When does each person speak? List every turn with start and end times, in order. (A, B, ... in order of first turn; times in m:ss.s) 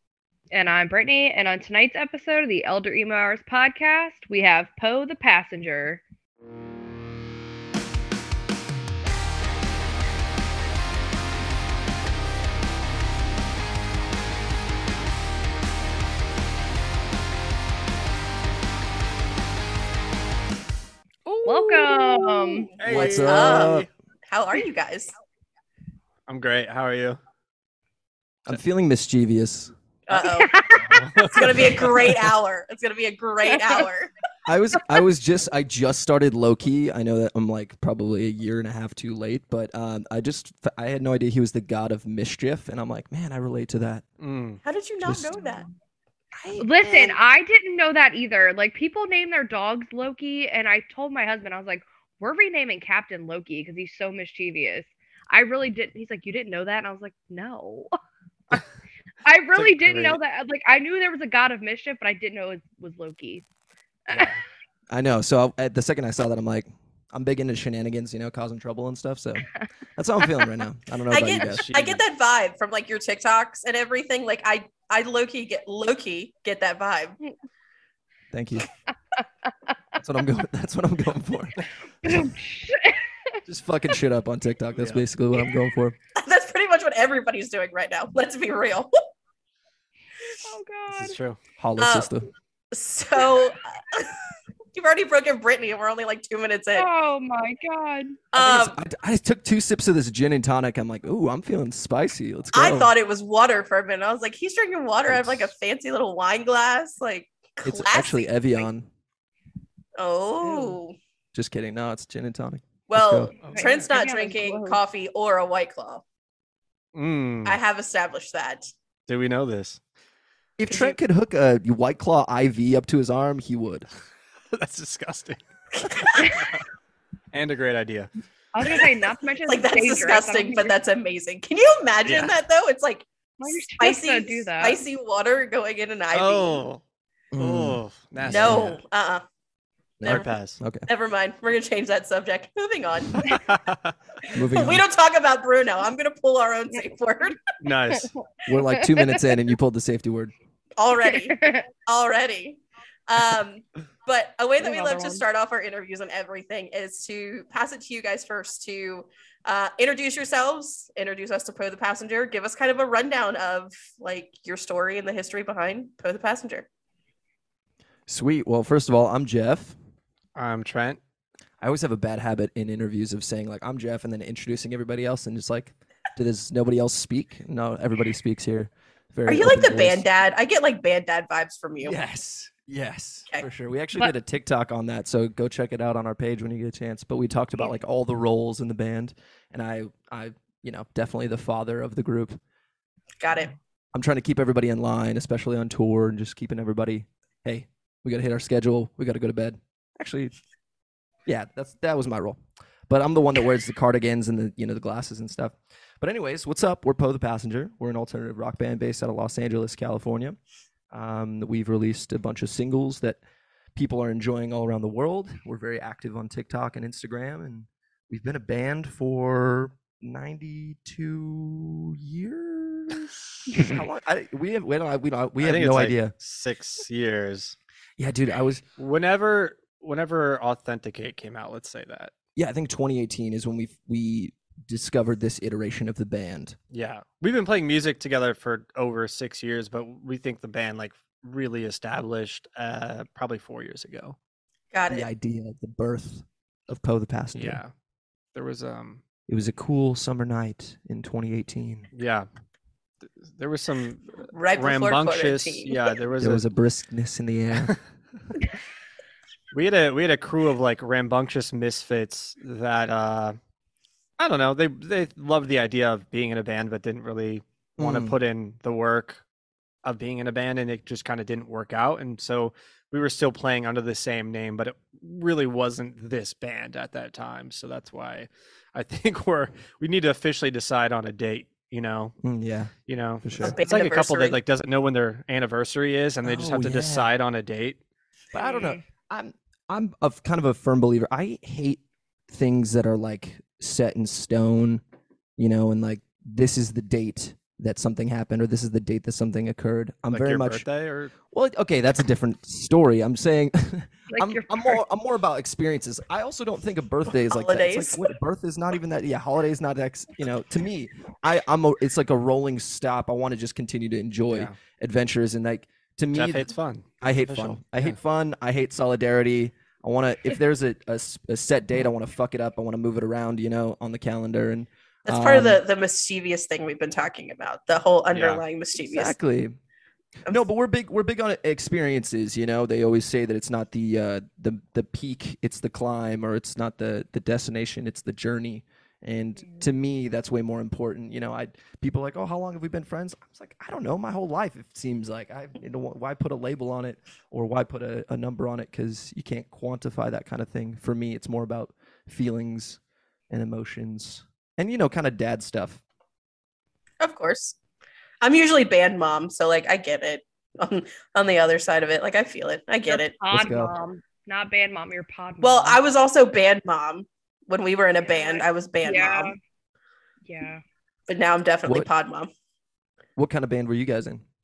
0:00.5-0:06.0 A
0:21.4-0:22.7 A
0:22.5-0:25.1 B
0:22.8-0:23.9 C
0:22.8-0:23.9 D
0:26.3-0:27.2 C
0:28.4-0:29.7 D
0:30.1-0:30.6 B
0:30.1-0:31.0 A
0:30.9-0:31.9 C
0:31.2-0:34.1 B
0:34.4-0:44.0 D
0:44.2-0:44.6 C
0:44.6-0:45.6 B
0:45.0-0:45.4 D
0:46.3-0:47.2 D
0:46.6-0:57.9 A
0:59.2-1:03.4 A
0:59.5-1:00.2 C
1:04.1-1:04.3 A
1:04.1-1:04.4 C
1:04.9-1:11.7 D
1:11.1-1:17.2 B
1:11.3-1:12.0 C
1:18.3-1:18.7 D
1:20.0-1:22.3 D
1:22.0-1:23.4 A
1:23.4-1:26.0 D
1:24.7-1:25.0 C
1:26.2-1:29.0 B
1:30.4-1:31.2 A
1:30.9-1:31.4 C
1:31.6-1:32.2 D
1:31.8-1:32.1 B
1:32.7-1:34.2 B
1:34.7-1:36.9 B
1:36.7-1:38.2 A
1:38.3-1:38.8 B
1:38.3-1:42.9 D
1:42.5-1:48.7 B
1:45.1-1:45.5 D
1:47.6-1:48.9 D
1:50.0-1:51.0 B
1:50.4-1:50.8 D
1:51.3-1:53.3 D
1:52.9-1:56.0 B
1:53.4-1:53.9 C
1:53.5-1:54.8 A
1:56.9-1:57.6 C
1:57.4-1:58.7 B
1:59.1-1:59.8 C
2:00.6-2:03.9 D
2:00.7-2:01.0 B
2:04.5-2:05.4 C
2:05.8-2:06.4 B
2:06.0-2:06.6 C
2:07.3-2:08.1 C
2:08.5-2:10.8 A
2:09.4-2:16.6 B
2:12.0-2:12.3 C
2:13.4-2:14.8 A
2:16.1-2:16.8 C
2:17.3-2:18.8 D
2:17.4-2:18.8 C
2:18.3-2:19.2 B
2:20.0-2:20.8 D
2:20.0-2:20.6 C
2:20.8-2:23.4 B
2:23.3-2:23.9 C
2:24.3-2:27.4 B
2:24.3-2:24.8 D
2:27.6-2:28.1 C
2:27.9-2:29.1 A
2:28.5-2:30.3 D
2:30.8-2:46.7 B
2:31.0-2:31.7 A
2:34.6-2:35.2 A
2:48.1-2:49.8 D
2:50.3-2:51.0 C
2:51.6-3:00.0 D
2:59.2-3:02.0 B
3:01.8-3:12.4 D
3:13.2-3:13.5 B
3:13.3-3:20.3 D
3:21.2-3:22.4 D
3:22.9-3:30.4 D
3:30.9-3:33.2 D
3:33.7-3:46.1 D
3:45.4-3:47.6 C
3:48.0-3:48.6 D
3:48.8-3:52.1 C
3:52.4-3:56.6 D
3:56.7-4:04.2 C
4:04.7-4:05.1 B
4:04.9-4:07.6 D
4:07.3-4:07.7 C
4:08.3-4:09.0 C
4:09.3-4:11.9 D
4:11.9-4:12.3 C
4:13.2-4:16.4 C
4:14.3-4:15.8 B
4:16.2-4:17.7 D
4:19.5-4:23.4 C
4:24.2-4:29.2 C
4:27.8-4:28.1 D
4:29.8-4:42.1 C
4:42.2-4:42.7 D
4:42.9-4:47.8 C
4:43.2-4:43.6 D
4:43.4-4:44.4 B
4:46.2-4:47.1 D
4:48.3-4:54.8 D
4:48.4-4:48.8 A
4:55.4-5:00.6 D
5:00.1-5:01.1 C
5:01.3-5:16.5 D
5:04.1-5:04.8 A
5:07.1-5:08.1 B
5:14.3-5:14.5 C
5:16.1-5:17.9 C
5:17.0-5:25.6 D
5:25.0-5:29.1 B
5:28.1-5:28.4 C
5:28.9-5:29.6 D
5:30.2-5:52.8 D
5:53.3-5:55.8 D
5:57.0-5:57.6 B
5:58.2-6:03.1 B
6:02.8-6:05.8 A
6:03.3-6:03.7 D
6:05.4-6:09.3 B
6:08.0-6:09.3 A
6:10.2-6:10.6 A
6:11.1-6:12.3 B
6:13.2-6:14.2 D